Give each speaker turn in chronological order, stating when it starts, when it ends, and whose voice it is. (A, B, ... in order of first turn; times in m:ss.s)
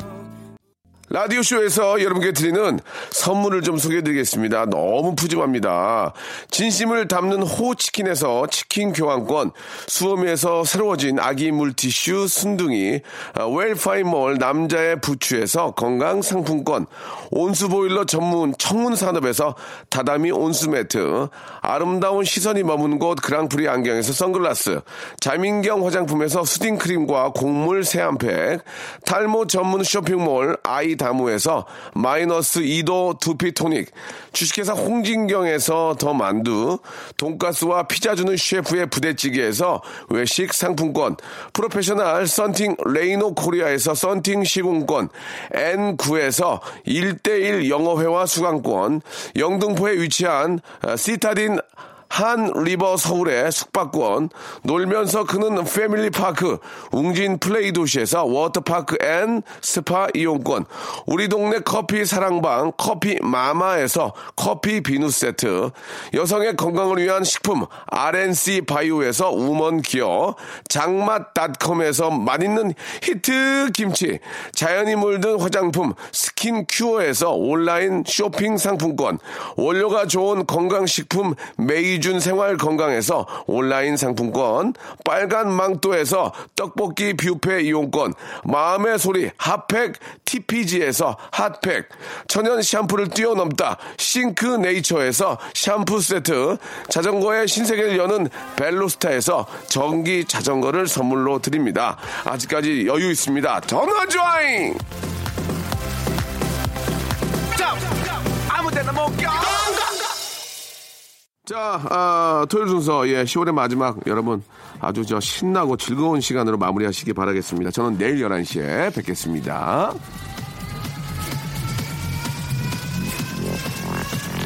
0:01.1-1:44.8 A
1:47.6-1:50.0 A
1:51.4-2:00.0 A